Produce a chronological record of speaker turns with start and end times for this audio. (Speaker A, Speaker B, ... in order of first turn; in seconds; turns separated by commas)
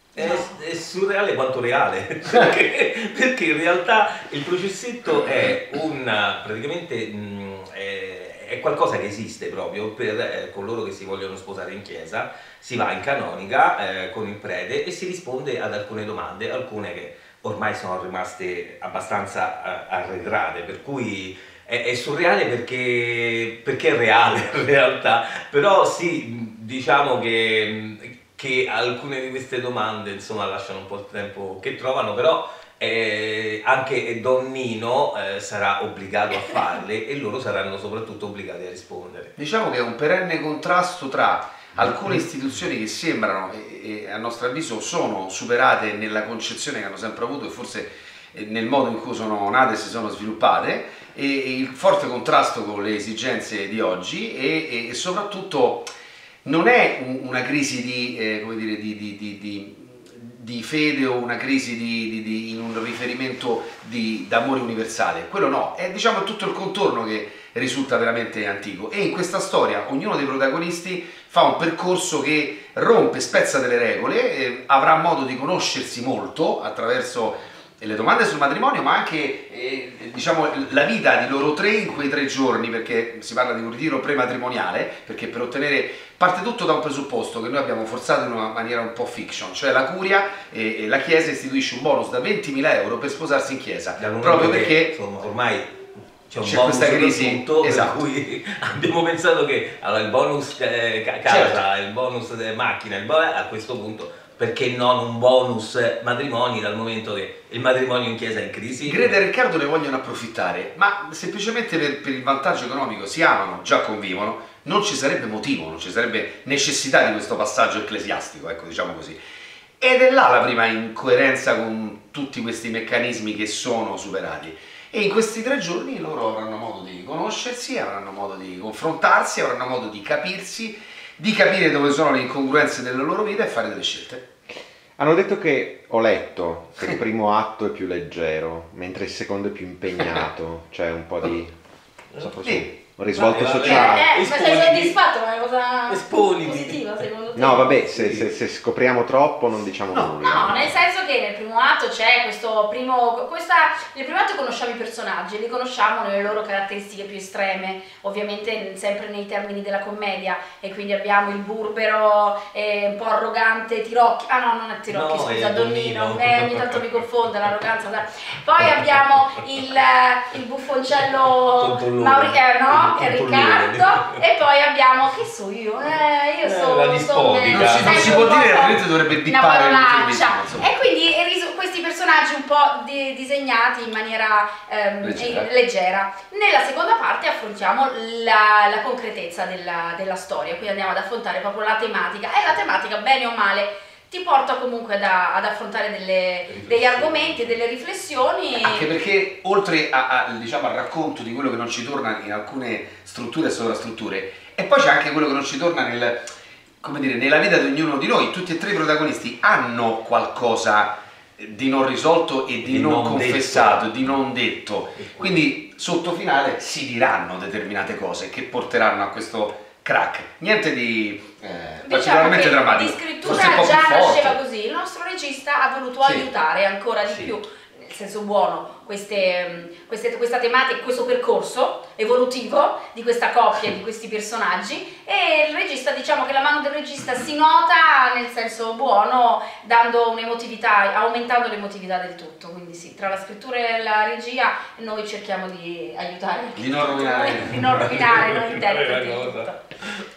Speaker A: 0.1-39.3, Speaker B: 0.2-0.5, Speaker C: 39.4-55.9, Speaker C: 56.5-95.0, Speaker A: 94.0-109.2, Speaker C: 96.4-98.0, Speaker C: 101.2-101.6, Speaker C: 108.8-119.2, Speaker C: 119.8-134.2, Speaker D: 135.0-141.5, Speaker D: 142.2-144.1, Speaker C: 142.4-142.7, Speaker A: 143.1-145.0, Speaker B: 143.6-147.9, Speaker A: 145.9-147.1, Speaker D: 147.4-150.7, Speaker A: 147.9-148.3, Speaker C: 149.9-150.5, Speaker B: 150.2-198.9, Speaker A: 164.9-166.9, Speaker A: 168.6-169.3, Speaker A: 171.4-174.1, Speaker A: 176.4-178.3, Speaker C: 177.4-180.7, Speaker C: 185.0-185.5, Speaker A: 196.5-197.6, Speaker C: 198.6-206.3, Speaker C: 206.8-224.4, Speaker A: 212.6-214.1, Speaker A: 214.9-215.4, Speaker B: 221.8-249.6, Speaker A: 227.0-227.3, Speaker C: 246.6-247.8, Speaker A: 247.5-250.1